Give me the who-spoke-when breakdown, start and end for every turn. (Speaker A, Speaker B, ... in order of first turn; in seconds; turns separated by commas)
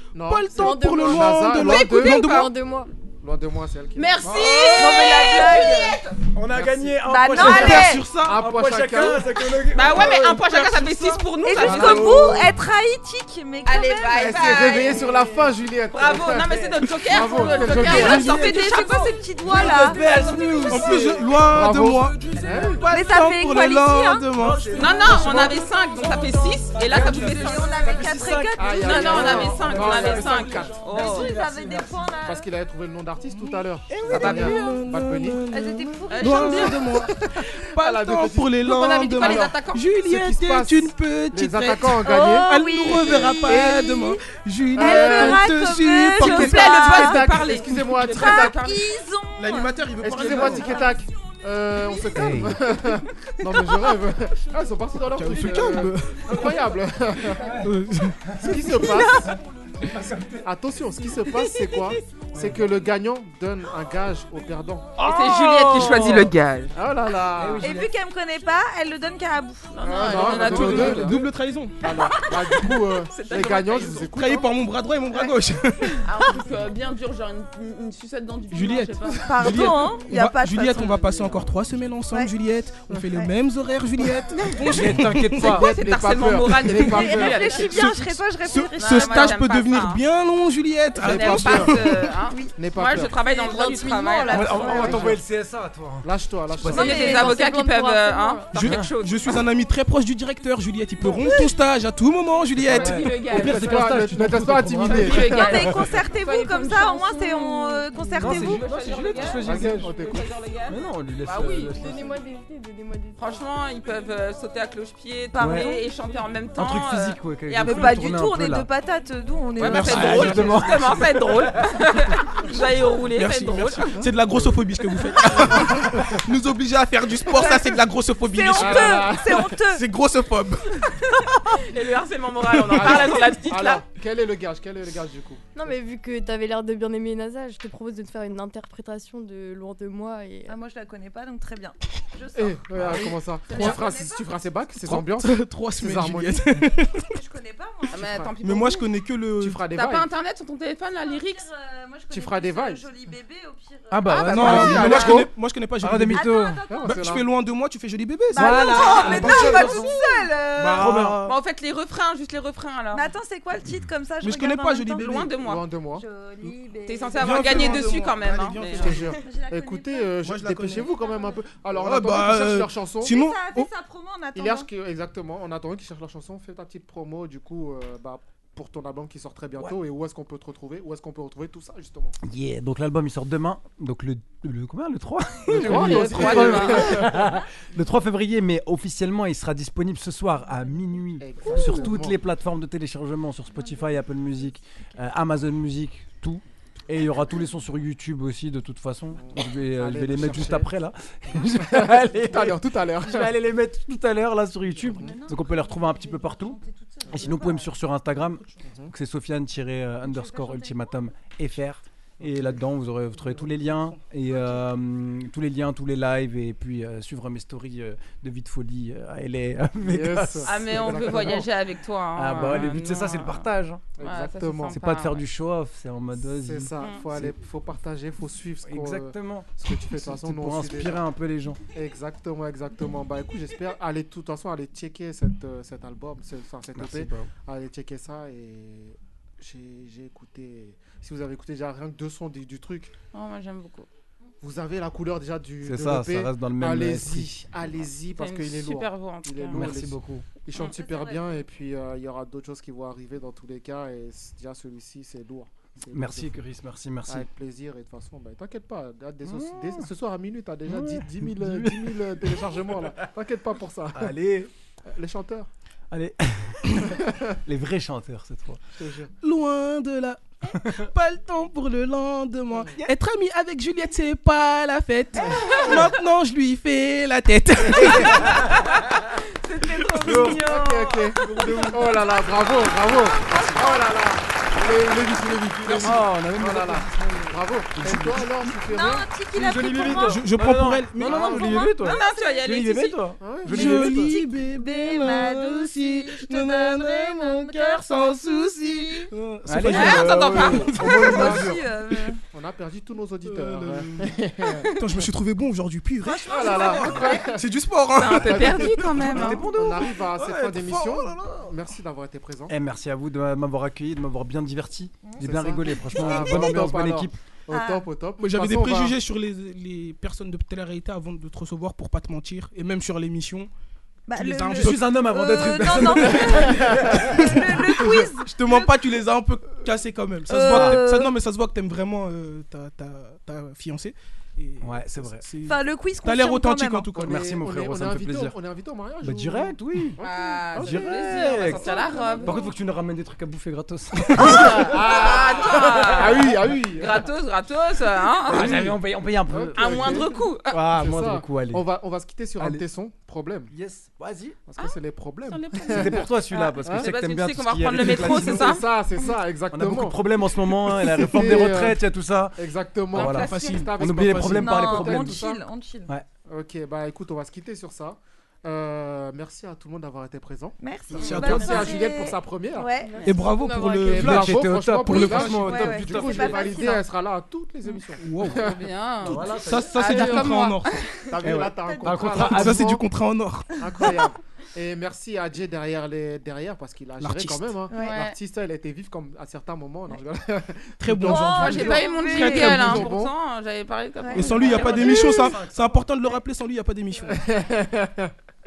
Speaker A: 0.1-2.5, Speaker B: 0.2-2.5, Speaker C: 0.5-2.9, Speaker D: 1.9-2.5, Speaker A: 3.2-5.2, Speaker D: 4.0-6.2, Speaker E: 4.7-6.0, Speaker F: 6.3-10.6, Speaker A: 6.5-7.0, Speaker E: 7.0-8.0, Speaker B: 7.3-8.4, Speaker A: 8.2-9.2, Speaker D: 9.7-12.2, Speaker B: 10.5-12.4, Speaker E: 11.4-14.7, Speaker A: 11.7-12.1, Speaker D: 13.6-15.1, Speaker A: 14.2-18.3, Speaker D: 15.9-19.2, Speaker F: 17.7-18.6, Speaker E: 17.9-20.7, Speaker F: 19.4-21.4, Speaker B: 19.9-25.5, Speaker A: 21.4-22.9, Speaker E: 22.9-24.3, Speaker F: 24.4-32.1, Speaker D: 24.7-27.8, Speaker E: 27.1-29.6, Speaker A: 28.6-30.9, Speaker D: 28.8-31.3, Speaker E: 30.9-32.5, Speaker A: 32.2-35.4, Speaker B: 33.3-47.0, Speaker D: 34.1-34.6, Speaker E: 35.5-37.0, Speaker D: 36.1-36.9, Speaker A: 36.9-38.6, Speaker D: 38.6-39.9, Speaker A: 39.2-42.5, Speaker E: 42.0-44.2, Speaker A: 44.7-45.5, Speaker E: 44.8-47.2, Speaker D: 46.2-49.0, Speaker A: 46.3-48.6, Speaker E: 48.1-51.0, Speaker B: 49.4-50.9, Speaker A: 50.0-57.6, Speaker F: 52.1-52.6, Speaker B: 55.1-56.3, Speaker F: 57.4-57.7, Speaker B: 57.6-58.3, Speaker F: 58.3-60.5, Speaker A: 58.4-59.4, Speaker A: 60.4-65.0, Speaker F: 62.3-62.6, Speaker D: 65.0-66.7, Speaker F: 65.0-66.3, Speaker A: 66.7-67.7, Speaker F: 67.3-67.9, Speaker E: 67.6-69.7, Speaker D: 69.7-71.2, Speaker A: 69.8-71.3, Speaker B: 70.1-71.8, Speaker A: 71.8-74.5, Speaker D: 73.1-74.1, Speaker B: 74.1-76.1, Speaker D: 76.0-79.3, Speaker B: 78.5-85.6, Speaker E: 79.2-81.3, Speaker F: 84.6-85.7, Speaker A: 85.4-87.7, Speaker D: 85.4-88.0, Speaker B: 86.8-87.0, Speaker E: 86.8-89.4, Speaker B: 87.6-92.1, Speaker D: 88.8-90.0, Speaker D: 91.0-95.0, Speaker A: 91.0-91.7, Speaker A: 92.5-93.1, Speaker C: 93.2-95.0, Speaker E: 94.3-95.0, Speaker F: 94.3-96.9, Speaker A: 94.5-95.2, Speaker A: 96.0-97.2, Speaker D: 96.7-99.4, Speaker E: 96.7-97.5, Speaker C: 96.8-98.5, Speaker B: 98.5-103.1, Speaker F: 98.6-98.9, Speaker D: 102.7-103.7, Speaker F: 102.7-105.9, Speaker A: 102.8-105.7, Speaker D: 104.9-111.7, Speaker E: 105.3-108.7, Speaker F: 108.2-110.0, Speaker A: 109.4-110.3, Speaker F: 110.7-112.2, Speaker C: 111.7-113.4, Speaker D: 113.2-118.0, Speaker E: 115.3-115.8, Speaker F: 115.4-115.8, Speaker F: 116.5-118.7, Speaker E: 117.6-120.7, Speaker D: 119.6-124.0, Speaker F: 119.6-121.5, Speaker B: 119.9-120.3, Speaker B: 123.1-130.9, Speaker E: 127.3-129.8, Speaker A: 128.6-129.6, Speaker D: 131.5-133.8, Speaker A: 132.6-135.4, Speaker C: 135.6-140.6, Speaker E: 140.5-144.2, Speaker A: 142.3-146.4, Speaker B: 144.8-147.1, Speaker E: 146.9-148.2, Speaker D: 147.9-148.9, Speaker A: 147.9-148.3, Speaker B: 148.4-149.7, Speaker A: 149.4-150.1, Speaker D: 149.7-151.4, Speaker E: 151.0-154.3, Speaker A: 152.1-152.9, Speaker F: 153.9-155.3, Speaker D: 154.1-155.1, Speaker B: 154.3-161.3, Speaker A: 154.4-155.3, Speaker F: 155.8-156.6, Speaker E: 156.1-157.0, Speaker A: 156.7-157.3, Speaker E: 158.3-160.9, Speaker F: 158.3-160.0, Speaker F: 160.7-161.3, Speaker D: 161.2-163.1, Speaker E: 162.9-165.3, Speaker B: 164.2-165.3, Speaker D: 165.0-165.6, Speaker A: 165.4-166.1, Speaker E: 166.0-167.8, Speaker D: 166.9-169.0, Speaker B: 167.2-169.1, Speaker A: 168.7-173.2, Speaker E: 168.8-170.1, Speaker B: 170.2-170.9, Speaker E: 170.7-171.4, Speaker B: 171.8-173.7, Speaker E: 173.0-174.7, Speaker A: 174.3-182.2, Speaker F: 182.2-206.6, Speaker A: 185.5-187.3, Speaker D: 185.6-187.1, Speaker A: 191.2-192.2, Speaker A: 199.2-200.7, Speaker A: 201.3-203.4, Speaker A: 204.9-205.2, Speaker E: 205.0-207.7, Speaker A: 207.1-207.4, Speaker F: 207.1-221.1, Speaker A: 208.6-208.9, Speaker E: 210.1-210.8, Speaker B: 213.2-213.9, Speaker A: 219.8-221.5, Speaker D: 220.4-223.5, Speaker F: 222.1-223.8, Speaker A: 222.4-222.8, Speaker A: 224.0-224.8, Speaker D: 224.0-225.2, Speaker F: 224.7-227.4, Speaker A: 226.2-231.1, Speaker F: 228.7-231.6, Speaker A: 231.7-242.9, Speaker F: 236.7-237.3, Speaker D: 243.1-243.9, Speaker A: 244.4-256.4, Speaker F: 245.6-247.3, Speaker D: 248.2-249.8, Speaker F: 249.5-250.3, Speaker E: 250.6-251.4, Speaker F: 255.9-257.3, Speaker A: 257.1-264.1, Speaker F: 259.2-259.9, Speaker F: 260.7-263.1, Speaker F: 263.9-264.5, Speaker A: 264.9-265.5, Speaker F: 265.9-268.6, Speaker A: 266.8-267.4, Speaker A: 268.7-269.1, Speaker B: 269.2-278.4, Speaker A: 272.5-272.9, Speaker A: 275.4-275.7, Speaker F: 278.0-278.4, Speaker D: 279.4-280.9, Speaker F: 280.0-281.8, Speaker A: 280.1-289.1, Speaker E: 281.5-284.0, Speaker F: 285.6-288.3, Speaker E: 288.7-290.3, Speaker F: 289.3-294.1, Speaker B: 290.1-291.7, Speaker E: 291.0-292.6, Speaker D: 291.7-293.0, Speaker A: 293.2-293.9, Speaker B: 293.4-301.4, Speaker E: 293.6-299.1, Speaker F: 299.4-301.6, Speaker D: 299.7-300.8, Speaker E: 299.7-302.2, Speaker A: 302.3-304.7, Speaker B: 303.3-309.1, Speaker E: 306.1-307.2, Speaker A: 306.1-307.5, Speaker D: 307.9-309.5, Speaker A: 308.1-312.6, Speaker F: 309.1-310.0, Speaker B: 309.7-311.5, Speaker F: 312.5-317.2, Speaker A: 315.2-319.0, Speaker E: 315.9-316.5, Speaker E: 317.5-317.9, Speaker B: 318.2-323.5, Speaker E: 324.1-328.7, Speaker B: 324.1-324.9, Speaker F: 324.6-327.4, Speaker B: 325.9-337.2, Speaker E: 330.3-331.1, Speaker F: 330.5-330.8, Speaker F: 334.6-335.2, Speaker E: 335.4-336.9, Speaker A: 336.9-342.5, Speaker F: 337.1-338.4, Speaker F: 339.0-340.0, Speaker D: 340.0-342.4, Speaker F: 340.6-346.2, Speaker A: 344.1-347.1, Speaker D: 344.4-348.7, Speaker F: 348.3-351.7, Speaker A: 348.3-353.5, Speaker D: 349.6-350.6, Speaker F: 352.4-352.6, Speaker F: 353.5-354.4, Speaker A: 354.5-356.9, Speaker D: 354.6-358.7, Speaker F: 355.7-358.6, Speaker A: 357.7-361.8, Speaker F: 359.5-365.2, Speaker A: 362.4-365.4, Speaker E: 362.9-363.7, Speaker B: 363.1-364.4, Speaker E: 364.2-365.9, Speaker A: 366.3-372.7, Speaker E: 370.6-373.2, Speaker B: 370.9-371.9, Speaker C: 372.8-374.1, Speaker B: 373.0-375.5, Speaker F: 373.9-376.6, Speaker A: 373.9-378.6, Speaker E: 374.9-376.8, Speaker B: 378.0-378.6, Speaker D: 378.3-380.9, Speaker F: 379.0-379.8, Speaker B: 379.3-384.0, Speaker C: 379.9-380.3, Speaker A: 379.9-380.4, Speaker A: 381.1-382.9, Speaker F: 381.2-382.8, Speaker A: 383.6-391.8, Speaker B: 387.0-387.6, Speaker E: 387.7-388.0, Speaker D: 387.7-388.2, Speaker B: 390.8-392.9, Speaker E: 391.0-392.6, Speaker D: 391.3-395.4, Speaker A: 392.3-393.1, Speaker B: 394.1-397.2, Speaker A: 394.4-395.1, Speaker F: 394.7-395.7, Speaker A: 397.1-398.1